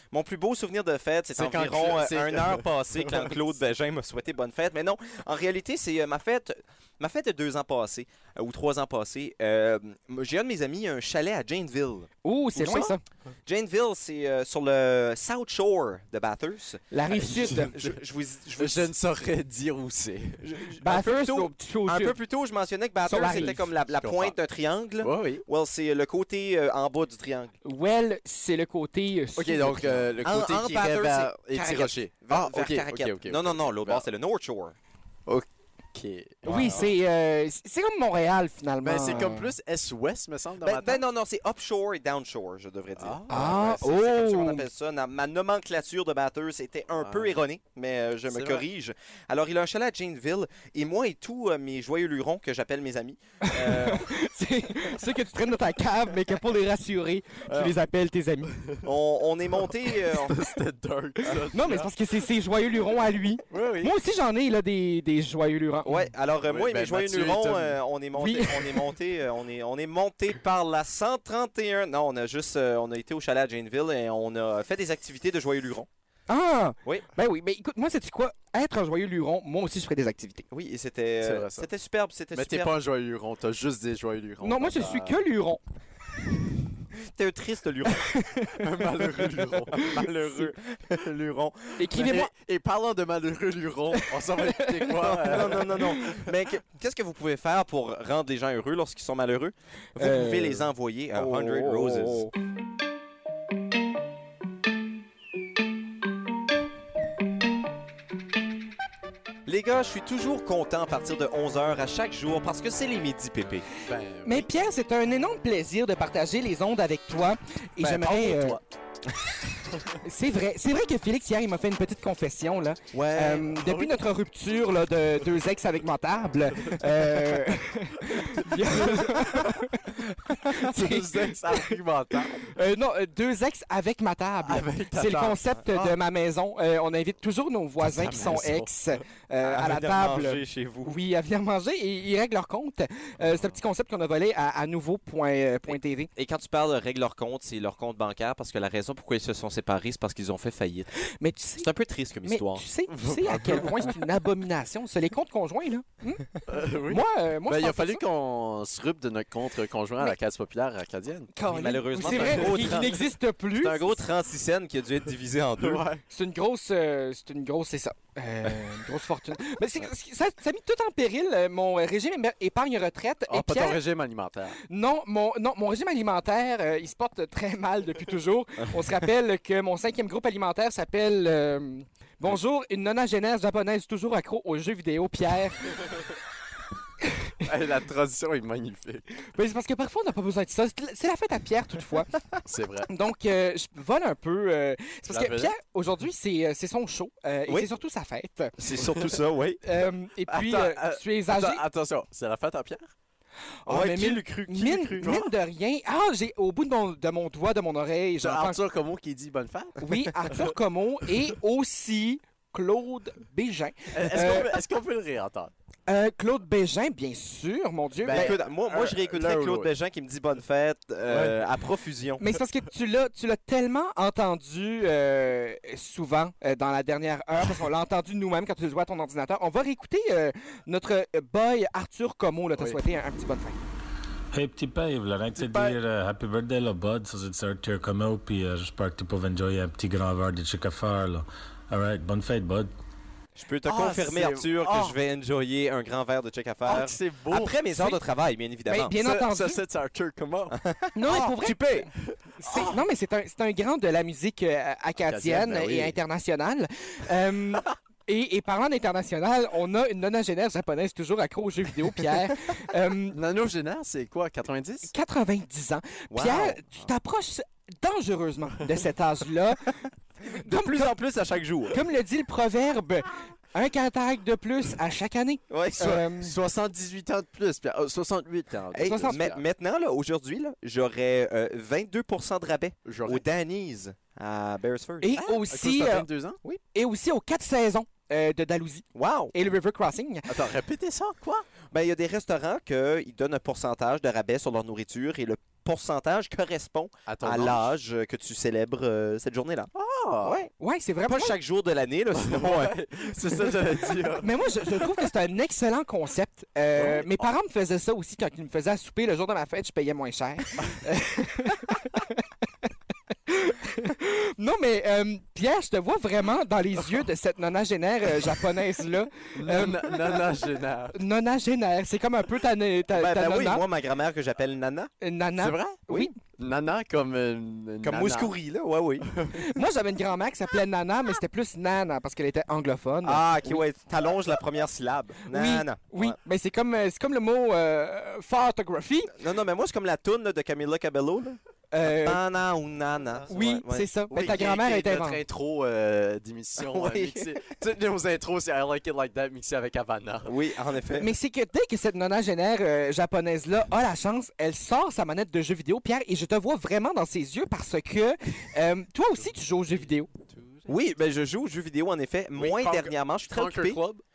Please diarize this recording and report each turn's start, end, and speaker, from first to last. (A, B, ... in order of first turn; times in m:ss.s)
0:00.1-0:12.9 A
0:01.3-0:03.5 B
0:12.2-0:13.0 C
0:13.5-0:16.8 A
0:16.9-0:17.7 C
0:17.1-0:18.0 B
0:17.3-0:18.9 A
0:18.6-0:20.6 B
0:20.4-0:27.5 A
0:20.8-0:22.2 C
0:23.1-0:23.6 C
0:23.2-0:24.4 B
0:25.0-0:25.4 B
0:27.6-0:30.1 C
0:29.4-0:34.1 B
0:30.2-0:34.8 A
0:35.3-0:36.9 B
0:36.5-0:39.5 C
0:36.5-0:36.9 A
0:38.8-0:41.0 B
0:40.6-0:54.1 A
0:43.0-0:43.7 B
0:43.3-0:44.7 C
0:47.0-0:47.4 B
0:48.3-0:48.7 B
0:53.4-0:58.6 C
0:57.5-0:57.8 B
0:58.6-0:58.9 B
0:58.8-1:00.4 A
1:00.0-1:01.9 B
1:01.5-1:06.1 C
1:03.5-1:04.0 B
1:05.9-1:15.9 A
1:06.4-1:07.8 B
1:08.2-1:08.9 C
1:16.3-1:20.4 C
1:20.5-1:22.7 A
1:21.2-1:21.7 B
1:22.3-1:25.2 B
1:24.4-1:25.6 C
1:27.0-1:28.2 A
1:28.1-1:28.6 C
1:28.6-1:29.8 B
1:29.7-1:31.9 A
1:29.8-1:30.5 C
1:31.8-1:32.3 C
1:31.9-1:36.1 B
1:34.3-1:36.0 C
1:35.0-1:42.3 A
1:40.0-1:42.3 C
1:49.5-1:53.7 A
1:53.8-1:54.5 B
1:54.2-1:58.6 C
1:57.8-1:58.6 B
1:59.7-2:00.0 B
2:00.0-2:10.0 C
2:02.9-2:04.0 B
2:03.0-2:03.4 A
2:06.6-2:09.7 B
2:10.5-2:26.1 C
2:10.6-2:12.5 B
2:14.4-2:15.9 B
2:17.8-2:19.0 B
2:19.4-2:21.0 A
2:26.2-2:30.9 A
2:31.2-2:31.7 C
2:31.6-2:32.6 A
2:32.3-2:36.3 C
2:32.9-2:34.1 B
2:36.5-2:41.3 B
2:36.9-2:38.0 C
2:41.3-2:44.0 C
2:41.4-2:45.8 A
2:41.9-2:43.0 B
2:45.6-2:46.0 B
2:46.1-2:53.8 C
2:53.3-2:54.6 B
2:54.7-3:05.8 C
3:07.4-3:09.1 B
3:09.3-3:12.1 C
3:12.4-3:12.9 B
3:12.9-3:18.5 C
3:15.1-3:15.6 B
3:18.6-3:19.6 A
3:19.6-3:21.6 C
3:20.3-3:22.9 B
3:23.6-3:28.6 C
3:23.7-3:25.1 A
3:25.0-3:25.3 B
3:28.2-3:30.5 B
3:29.8-3:34.6 C
3:33.9-3:35.5 B
3:35.9-3:38.4 C
3:38.0-3:39.8 B
3:38.1-3:42.2 A
3:41.1-3:41.5 B
3:42.2-3:53.6 C
3:52.6-3:52.8 B
3:54.3-4:02.7 D
3:55.3-3:55.8 B
4:03.4-4:09.0 A
4:03.6-4:05.0 B
4:06.6-4:07.9 B
4:08.7-4:09.6 C
4:08.9-4:10.6 B
4:10.5-4:11.9 A
4:11.0-4:11.9 C
4:12.1-4:12.8 B
4:12.4-4:23.2 C
4:15.0-4:16.0 B
4:23.1-4:24.9 B
4:24.9-4:29.8 C
4:26.1-4:26.9 A
4:30.3-4:30.9 C
4:30.4-4:31.8 A
4:31.7-4:36.4 C
4:35.5-4:36.0 A
4:36.1-4:39.5 B
4:38.7-4:45.4 A
4:38.8-4:39.2 C
4:42.8-4:43.2 B
4:45.0-4:46.1 C
4:45.4-4:46.4 B
4:46.7-4:50.3 C
4:49.0-4:49.3 A
4:50.3-4:51.5 B
4:51.7-4:59.7 A
4:57.1-4:57.8 B
4:59.7-5:00.4 B
5:00.2-5:00.5 A
5:00.6-5:01.4 C
5:01.1-5:02.7 A
5:02.1-5:05.1 B
5:04.2-5:12.2 C
5:06.7-5:07.3 B
5:13.3-5:20.3 C
5:19.4-5:21.0 B
5:20.9-5:23.6 C
5:22.9-5:24.9 A
5:25.0-5:26.2 C
5:25.4-5:25.8 B
5:26.3-5:28.3 B
5:27.8-5:29.1 A
5:29.0-5:29.5 B
5:29.4-5:33.6 C
5:33.0-5:36.2 A
5:35.3-5:39.1 C
5:39.2-5:44.4 A
5:41.7-5:42.2 C
5:43.3-5:45.2 C
5:44.1-5:50.4 B
5:50.2-5:51.1 A
5:51.0-6:00.1 C
5:59.2-6:00.9 B
6:00.7-6:03.8 A
6:02.4-6:04.0 B